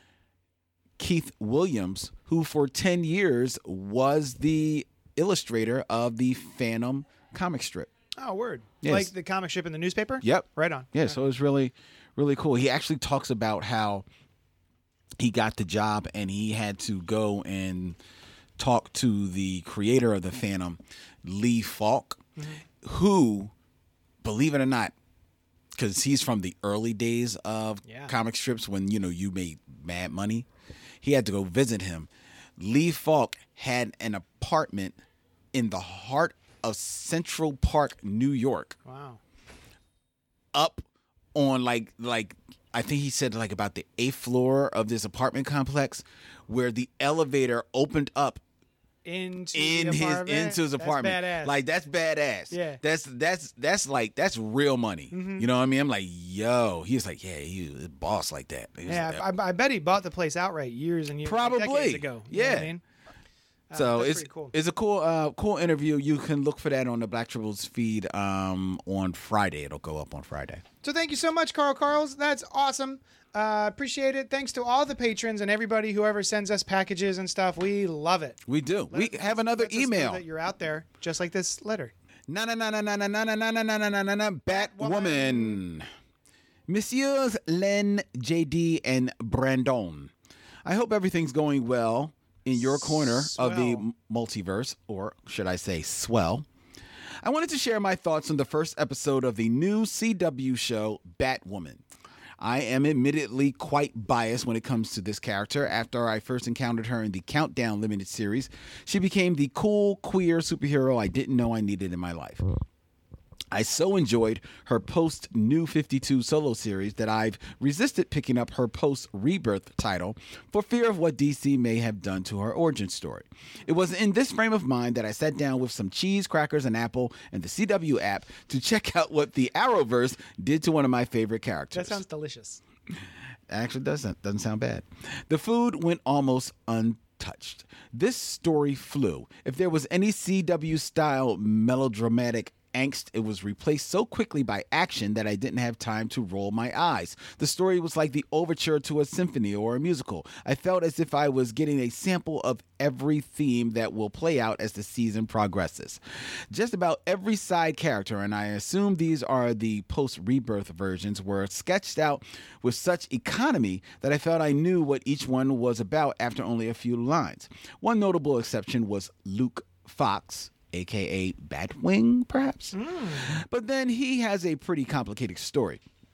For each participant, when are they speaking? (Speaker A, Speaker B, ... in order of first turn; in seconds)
Speaker A: 1.0-7.9, 8.8-9.1, 10.2-14.0, 15.2-18.0, 18.6-22.2, 22.8-23.5, 24.2-24.9, 25.7-30.5, 31.0-35.0, 35.5-38.8, 40.5-48.4, 49.5-59.2, 61.2-62.7, 63.7-70.6, 78.5-80.2, 82.3-85.8, 86.7-90.1, 90.6-96.5, 97.2-101.8, 102.4-112.4, 113.5-132.0, 133.5-156.0, 156.5-175.8
Speaker B: 8.2-11.2, 27.8-28.1, 38.8-39.2, 49.0-51.6, 52.5-52.8, 55.1-55.5, 58.9-62.8, 63.7-64.5, 70.8-78.4, 78.9-81.9, 84.5-85.6, 92.5-93.8, 131.7-132.6, 172.7-173.3